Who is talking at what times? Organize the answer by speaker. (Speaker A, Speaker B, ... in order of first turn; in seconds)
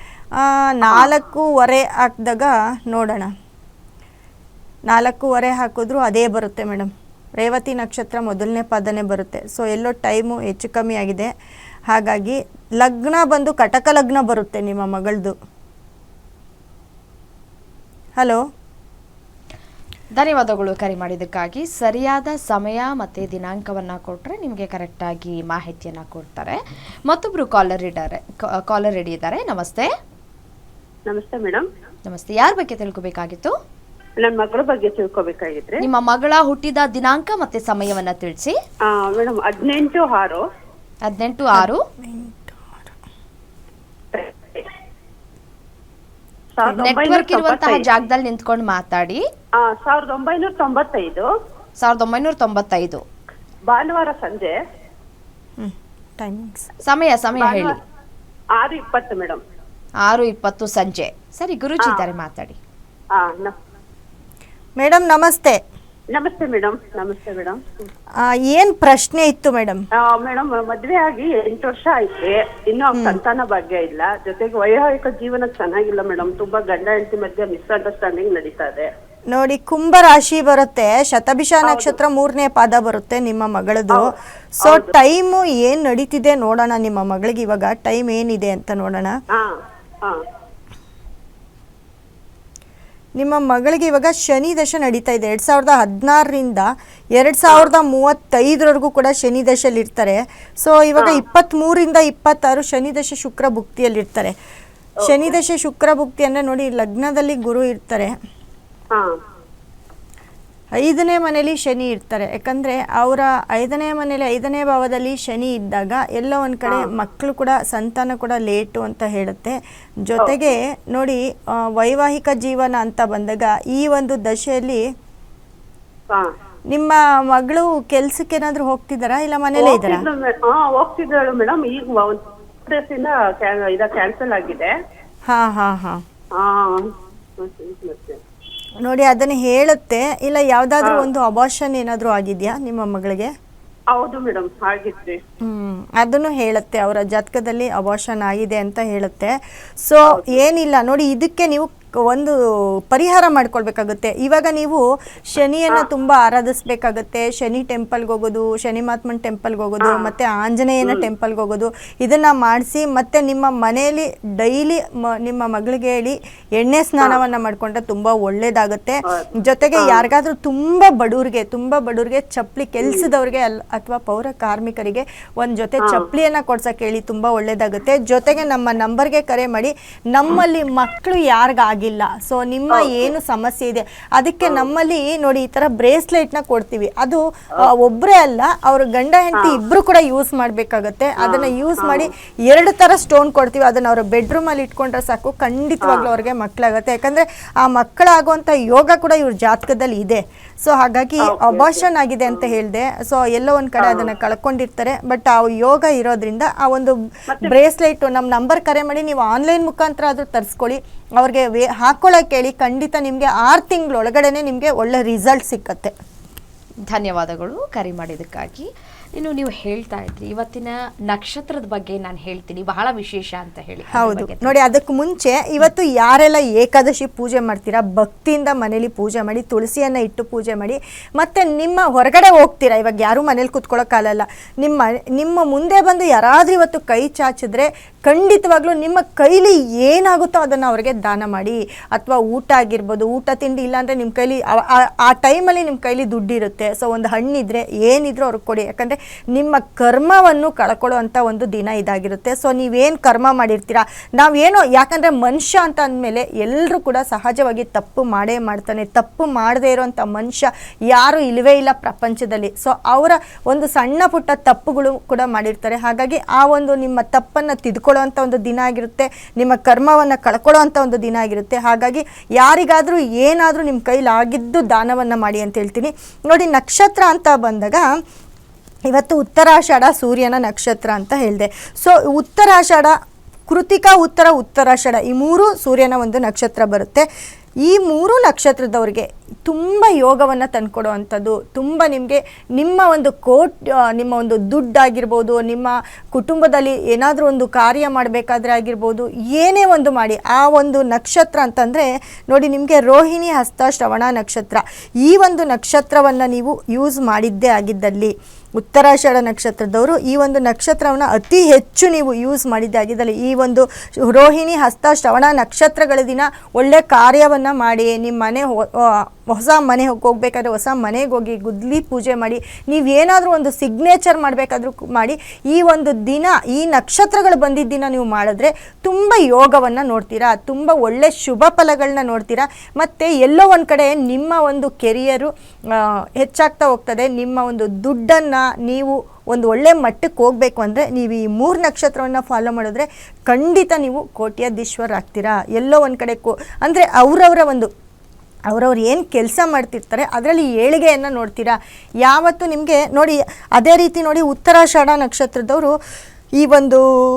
Speaker A: 0.4-3.3, 4.9-11.3, 11.9-15.3, 41.5-42.9, 55.6-56.7, 64.8-65.6, 68.2-69.8, 73.0-73.2, 79.3-84.1, 84.6-89.1, 93.2-104.3, 105.0-108.1, 110.8-124.8, 126.7-130.0, 135.2-136.0, 138.8-143.3, 145.4-149.3, 149.8-152.3, 152.9-215.9, 223.9-277.9, 278.9-282.9, 283.5-287.1, 287.6-347.7, 348.5-355.7, 356.4-356.8
Speaker B: 20.1-29.9, 32.1-33.5, 35.8-38.5, 41.1-41.8, 46.6-49.2, 51.8-53.0, 56.8-57.8, 60.0-62.6, 216.9-224.5
Speaker C: 31.1-31.6, 34.2-35.8, 38.9-40.4, 44.1-44.7, 46.5-47.9, 49.6-51.3, 53.7-54.5, 57.4-57.8, 58.5-59.4, 63.1-63.5, 66.1-67.6, 70.0-78.9, 81.7-82.0, 84.7-84.9, 89.3-90.2, 129.6-134.7, 136.4-136.8, 137.4-138.2, 143.9-145.2, 150.1-150.3, 159.8-160.1, 169.1-170.0, 182.7-183.1, 191.2-192.1, 201.2-202.5, 203.8-204.1